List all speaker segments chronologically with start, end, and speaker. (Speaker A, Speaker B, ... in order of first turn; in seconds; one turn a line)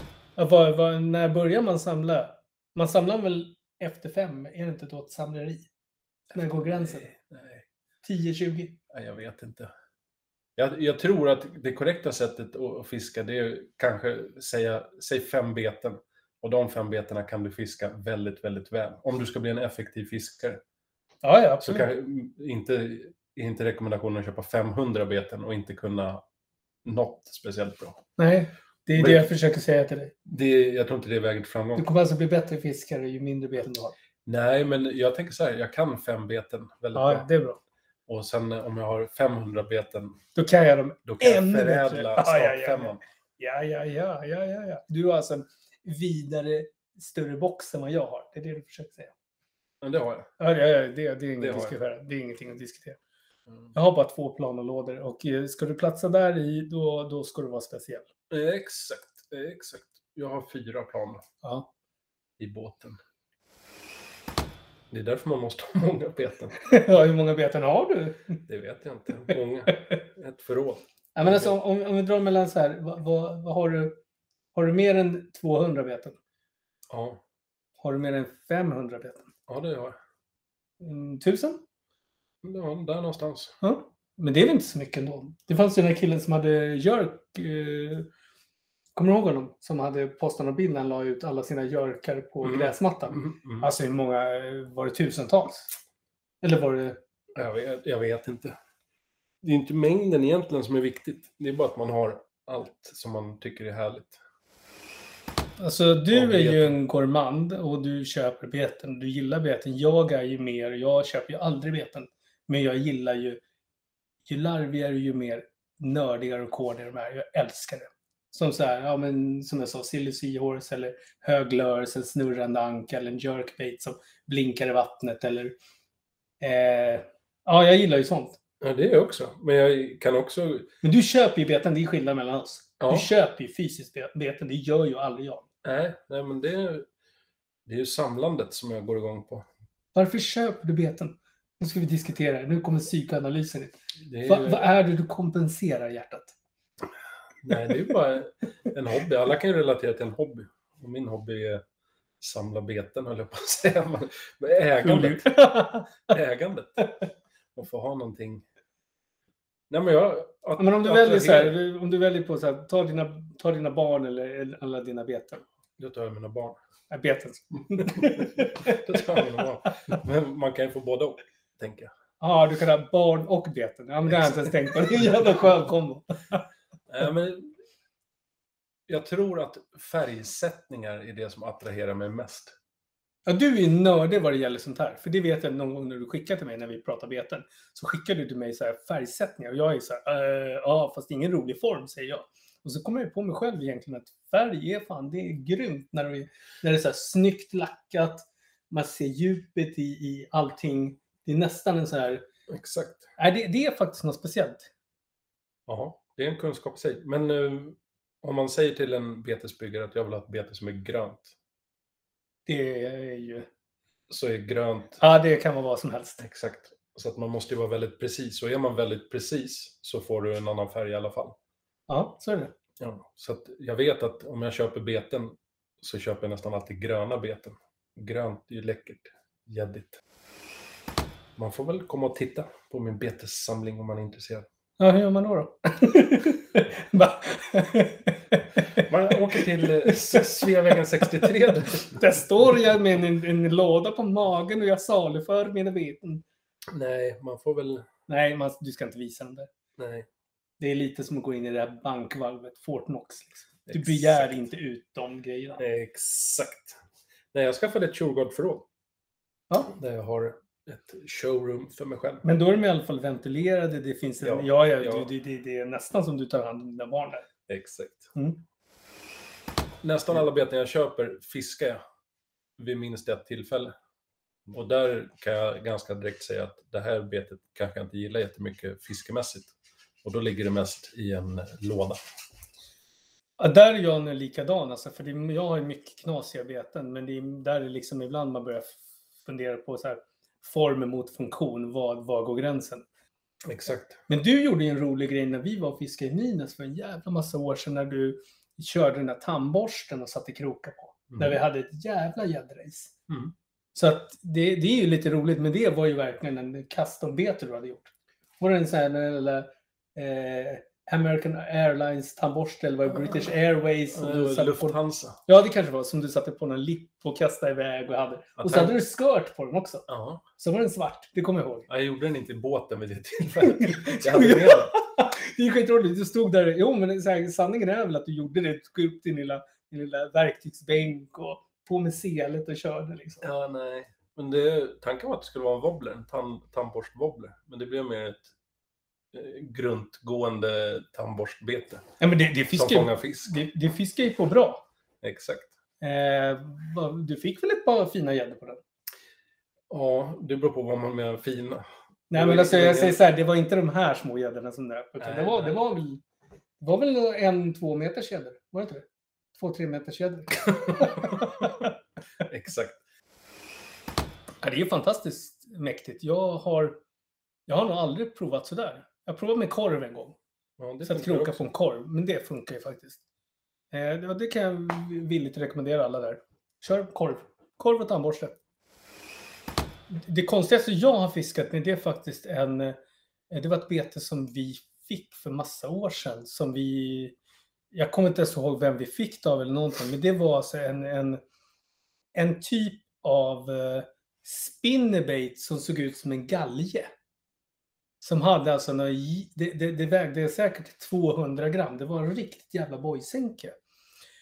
Speaker A: 0.4-5.7
Speaker A: 6.3-7.1
Speaker B: 6.3-7.7
Speaker A: 8.0-8.8
Speaker B: 8.9-9.7
Speaker B: 10.6-20.6
Speaker A: 21.2-21.9
Speaker B: 21.6-26.2
Speaker B: 26.8-28.0
Speaker A: 28.2-30.1
Speaker B: 28.9-29.2
Speaker B: 30.3-31.9
Speaker A: 31.8-34.0
Speaker B: 34.2-37.3
Speaker A: 37.0-37.6
Speaker B: 38.1-40.2
Speaker A: 40.4-49.1
Speaker B: 41.0-43.0
Speaker B: 49.8-50.3
Speaker A: 50.4-53.0
Speaker B: 51.4-51.7
Speaker A: 53.7-58.1
Speaker B: 58.3-61.2
Speaker A: 61.4-61.7
Speaker B: 62.4-63.0
Speaker B: 64.9-66.6
Speaker A: 66.6-68.4
Speaker B: 68.5-71.5
Speaker A: 71.2-74.0
Speaker A: 74.5-76.2
Speaker B: 76.9-77.2
Speaker A: 77.8-79.3
Speaker B: 79.5-80.0
Speaker A: 80.8-81.6
Speaker B: 82.4-83.5
Speaker A: 83.6-88.1
Speaker A: 89.0-95.7
Speaker B: 92.4-93.7
Speaker A: 96.4-97.0
Speaker B: 97.3-98.6
Speaker B: 99.4-104.2
Speaker A: 105.6-113.4
Speaker B: 106.1-106.8
Speaker A: 114.3-125.5
Speaker A: 126.4-128.4
Speaker B: 128.6-130.7
Speaker A: 130.8-135.5
Speaker B: 132.8-133.1
Speaker B: 135.6-136.9
Speaker B: 137.7-139.5
Speaker A: 139.9-146.3
Speaker B: 144.0-144.7
Speaker B: 147.4-151.6
Speaker A: 147.5-147.8
Speaker B: 152.2-155.3
Speaker A: 154.8-156.0
Speaker B: 156.1-156.9
Speaker B: 157.6-158.4
Speaker B: 159.7-161.6
Speaker A: 160.6-165.4
Speaker B: 165.8-166.6
Speaker A: 166.9-169.4
Speaker B: 168.0-171.9
Speaker A: 172.2-176.4
Speaker B: 174.1-175.4
Speaker B: 176.9-177.6
Speaker B: 178.9-182.6
Speaker A: 183.3-202.3
Speaker B: 202.5-203.0
Speaker A: 203.2-204.7
Speaker B: 205.7-211.3
Speaker A: 212.5-213.5
Speaker B: 214.1-215.0
Speaker A: 215.0-216.3
Speaker B: 216.2-221.3
Speaker A: 221.9-222.5
Speaker B: 222.8-230.0
Speaker B: 231.4-234.5
Speaker A: 234.8-246.2
Speaker B: 238.7-242.0
Speaker B: 246.7-247.9
Speaker A: 248.1-249.5
Speaker B: 249.8-250.1
Speaker A: 250.6-255.6
Speaker B: 253.7-254.4
Speaker B: 255.6-256.8
Speaker B: 257.3-258.6
Speaker B: 259.7-262.2
Speaker A: 262.2-267.3
Speaker B: 264.2-265.1
Speaker B: 267.5-268.1
Speaker A: 268.1-268.4
Speaker B: 269.8-271.8
Speaker B: 272.6-273.8
Speaker B: 274.5-282.0
Speaker A: 283.4-292.9
Speaker B: 293.4-294.0
Speaker A: 294.1-302.9
Speaker B: 301.1-301.4
Speaker B: 303.1-303.3
Speaker A: 303.8-321.7
Speaker B: 313.9-315.2
Speaker B: 318.4-318.7
Speaker B: 319.9-320.2
Speaker B: 321.7-324.8
Speaker A: 323.5-333.3
Speaker B: 333.2-338.3
Speaker B: 339.1-341.9
Speaker A: 342.0-344.6
Speaker B: 342.5-343.4
Speaker B: 345.0-345.5
Speaker A: 345.8-348.6
Speaker B: 349.7-353.0
Speaker A: 352.1-356.0
Speaker B: 355.0-355.6
Speaker A: 356.6-361.7
Speaker B: 360.5-361.6
Speaker B: 362.2-362.8
Speaker A: 364.4-366.8
Speaker A: 367.5-370.2
Speaker B: 370.6-371.5
Speaker A: 370.9-373.0
Speaker A: 373.7-378.4
Speaker A: 379.9-382.8
Speaker A: 383.3-387.1
Speaker A: 387.7-391.2
Speaker A: 392.1-396.9
Speaker A: 398.0-403.6